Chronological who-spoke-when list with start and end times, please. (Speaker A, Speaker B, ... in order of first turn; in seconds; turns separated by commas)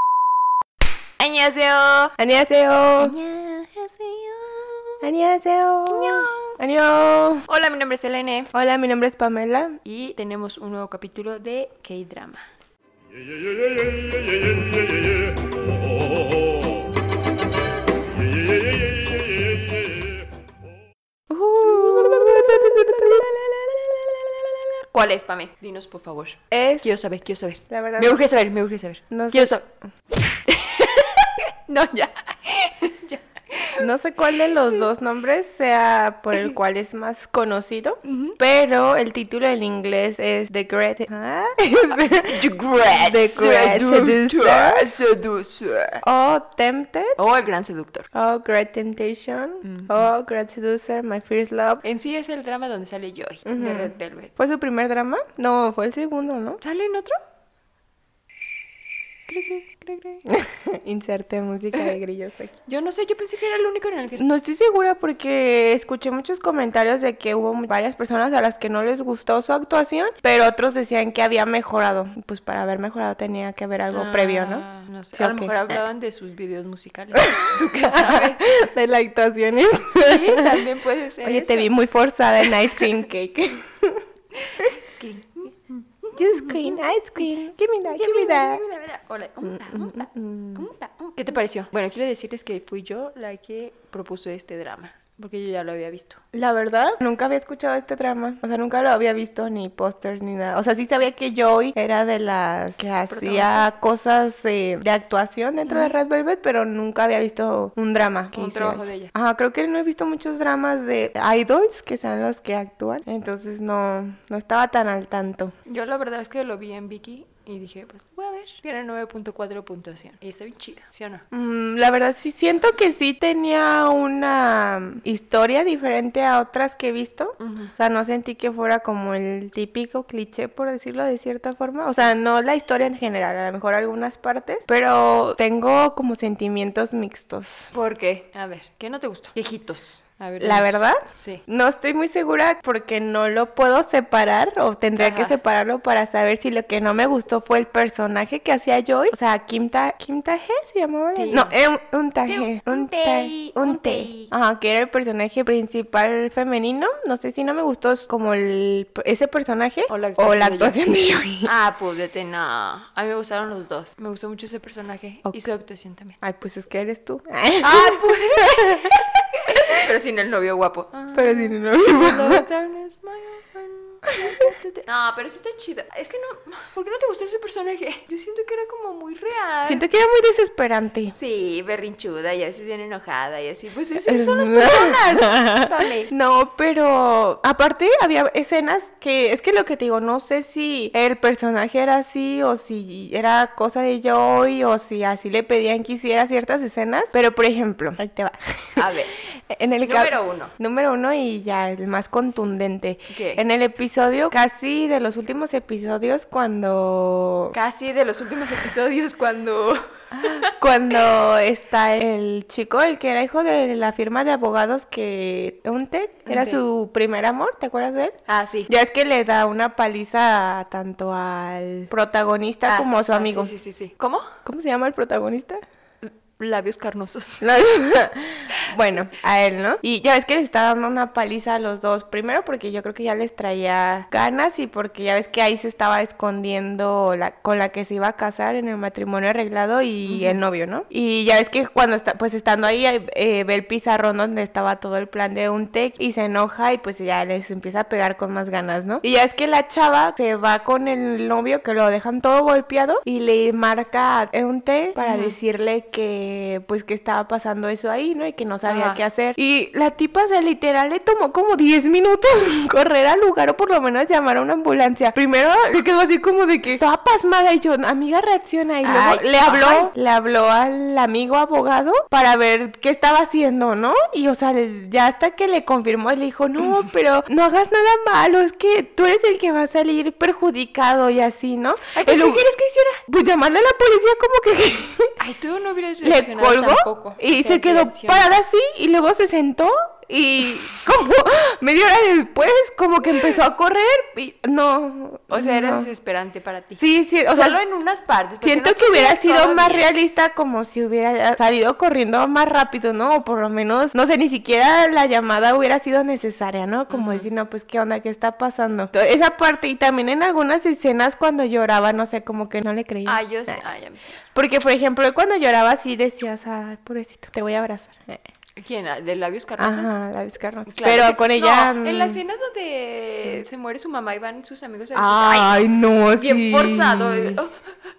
Speaker A: 1.2-2.1, Speaker B: 2.2-3.1, Speaker A: 3.0-5.0, Speaker B: 5.0-7.5, Speaker A: 5.9-6.6, Speaker A: 7.5-8.5, Speaker B: 8.5-9.8, Speaker A: 9.8-12.5, Speaker B: 21.3-23.3, Speaker A: 21.6-29.6, Speaker B: 26.5-26.9, Speaker B: 27.7-28.2, Speaker B: 29.1-29.5, Speaker A: 30.3-33.9, Speaker B: 33.8-44.8, Speaker A: 34.4-34.9, Speaker A: 38.0-38.4, Speaker A: 42.1-46.0, Speaker B: 46.0-47.1, Speaker A: 47.2-48.1, Speaker B: 48.1-51.8, Speaker A: 49.6-50.1, Speaker A: 51.8-54.3, Speaker B: 53.5-56.6, Speaker A: 56.6-57.2, Speaker A: 59.3-60.3, Speaker B: 60.3-62.5, Speaker A: 62.6-64.2, Speaker B: 64.2-75.8, Speaker A: 73.9-78.5, Speaker B: 77.2-80.6, Speaker A: 79.9-81.7, Speaker B: 81.2-84.0, Speaker A: 82.4-82.9, Speaker A: 84.3-86.8, Speaker B: 86.1-88.6, Speaker A: 87.8-96.2, Speaker B: 89.4-90.7, Speaker B: 96.3-115.5, Speaker A: 103.0-103.7, Speaker A: 105.7-105.9, Speaker A: 108.3-109.1, Speaker A: 115.7-121.2, Speaker B: 121.3-137.7, Speaker A: 127.4-127.7, Speaker A: 131.8-132.1, Speaker A: 137.7-141.4, Speaker B: 140.4-161.5, Speaker A: 145.0-145.4, Speaker A: 151.1-151.5, Speaker A: 152.2-154.3, Speaker A: 159.9-160.8, Speaker A: 161.4-166.2, Speaker B: 166.2-169.8, Speaker A: 167.6-179.8, Speaker B: 171.1-172.4, Speaker B: 174.1-174.4, Speaker B: 179.6-181.1, Speaker A: 181.1-186.1, Speaker B: 184.1-198.9, Speaker A: 198.8-199.1, Speaker B: 199.5-207.5, Speaker A: 199.8-200.5, Speaker A: 203.1-203.4, Speaker A: 207.5-211.0, Speaker B: 210.1-223.5, Speaker A: 216.2-216.6, Speaker A: 218.3-218.7, Speaker A: 222.7-224.3, Speaker B: 224.4-225.6, Speaker A: 226.0-227.5, Speaker B: 227.4-282.5, Speaker A: 240.1-240.4, Speaker A: 255.0-255.3, Speaker A: 258.6-259.0, Speaker A: 268.8-269.9, Speaker A: 281.9-283.0, Speaker B: 283.1-285.1, Speaker A: 285.2-288.3, Speaker B: 286.0-295.9, Speaker A: 295.3-299.9, Speaker B: 296.8-297.6, Speaker B: 298.4-313.6, Speaker A: 306.9-307.3, Speaker A: 313.1-314.2, Speaker B: 314.3-318.2, Speaker A: 318.6-319.9, Speaker B: 319.6-322.2, Speaker A: 320.7-327.7, Speaker B: 324.9-327.4